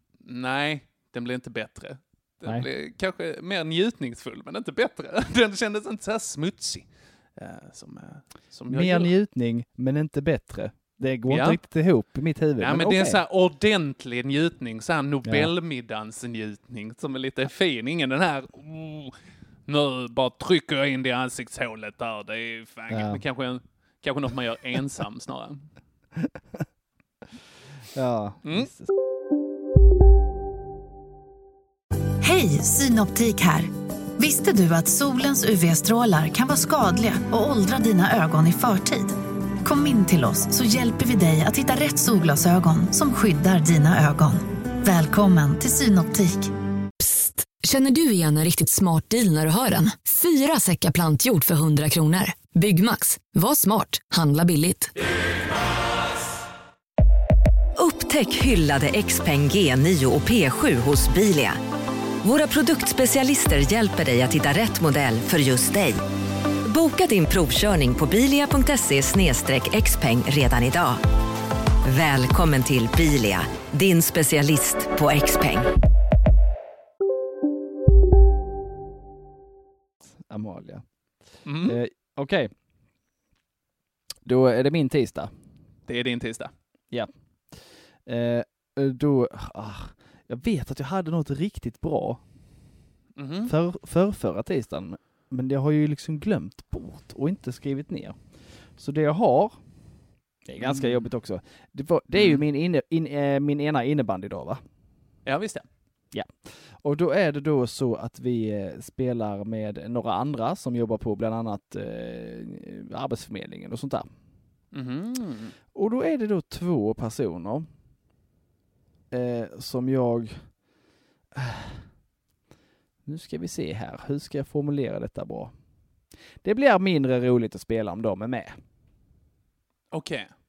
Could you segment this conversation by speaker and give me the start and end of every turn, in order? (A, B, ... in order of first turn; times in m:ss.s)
0:00.2-0:09.1 A
0:08.7-0:13.2 B
0:11.3-0:11.6 A
0:12.6-0:19.1 A
0:15.2-0:15.5 B
0:19.7-0:25.6 A
0:22.9-0:23.2 B
0:27.9-0:28.9 B
0:32.2-0:46.5 C
0:47.0-0:54.9 D
0:57.8-1:01.6 E
1:02.2-1:06.0 E
1:06.7-1:11.0 E
1:11.9-1:15.7 E
1:20.0-1:20.8 B
1:21.4-1:21.8 A
1:21.6-1:22.5 B
1:24.2-1:25.3 B
1:25.9-1:26.5 A
1:28.0-1:32.2 B
1:33.2-1:33.5 A
1:33.5-1:38.2 B
1:38.8-1:39.6 B
1:40.4-1:44.6 B
1:40.6-1:41.1 A
1:42.1-1:42.4 A
1:45.2-1:45.6 A
1:46.1-1:54.1 B
1:54.7-1:55.6 A
1:55.7-1:57.7 B
1:59.1-2:00.5 B
2:01.3-2:01.8 B
2:03.0-2:05.5 B
2:06.4-2:08.6 B
2:09.9-2:10.3 A